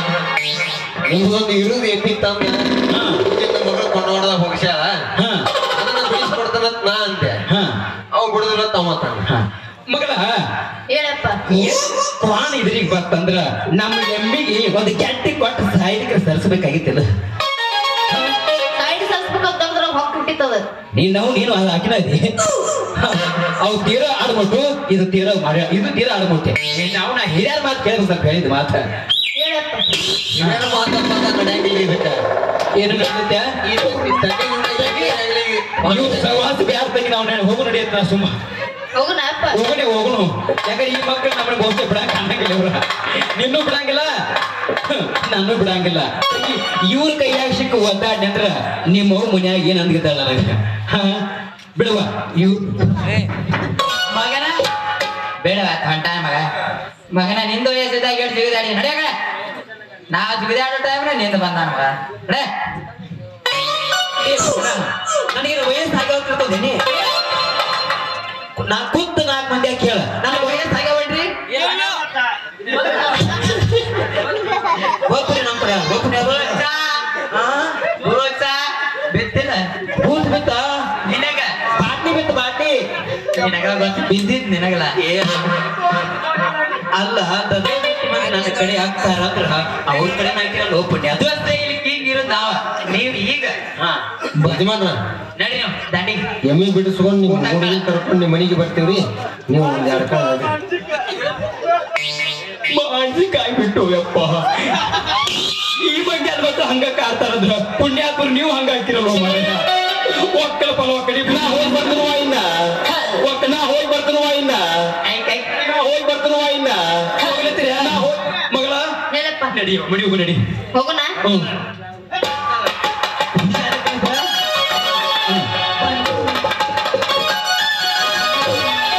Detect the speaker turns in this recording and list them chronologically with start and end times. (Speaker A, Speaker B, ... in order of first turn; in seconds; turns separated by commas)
Speaker A: 1.0-5.1, Speaker B: 2.9-3.2, Speaker B: 5.2-5.4, Speaker A: 5.7-7.4, Speaker A: 8.1-9.3, Speaker B: 9.2-10.3, Speaker C: 10.9-11.4, Speaker B: 11.5-17.1, Speaker C: 18.8-20.6, Speaker B: 20.9-22.3, Speaker B: 22.9-28.9, Speaker C: 29.3-29.9, Speaker B: 30.3-30.6, Speaker A: 30.4-32.2, Speaker B: 32.7-33.5, Speaker A: 33.6-36.4, Speaker B: 34.8-35.1, Speaker B: 35.8-38.3, Speaker C: 38.9-39.6, Speaker B: 39.5-44.1, Speaker B: 44.9-53.2, Speaker D: 54.1-54.6, Speaker D: 55.4-56.5, Speaker D: 57.1-59.1, Speaker D: 60.1-62.5, Speaker B: 64.2-66.8, Speaker B: 68.6-71.7, Speaker B: 74.8-76.6, Speaker D: 76.1-77.2, Speaker B: 77.3-77.8, Speaker D: 78.0-79.7, Speaker B: 79.8-81.0, Speaker D: 81.1-81.5, Speaker B: 81.6-82.8, Speaker D: 83.3-85.0, Speaker B: 85.0-85.4, Speaker B: 86.9-91.3, Speaker D: 91.1-93.5, Speaker A: 94.4-95.0, Speaker D: 95.4-96.3, Speaker A: 96.4-100.5, Speaker B: 97.3-97.8, Speaker B: 102.7-104.9, Speaker B: 105.6-118.8, Speaker D: 115.1-115.4, Speaker C: 119.1-119.5, Speaker B: 119.5-120.4, Speaker C: 120.7-121.2, Speaker B: 121.2-121.5, Speaker B: 123.4-124.2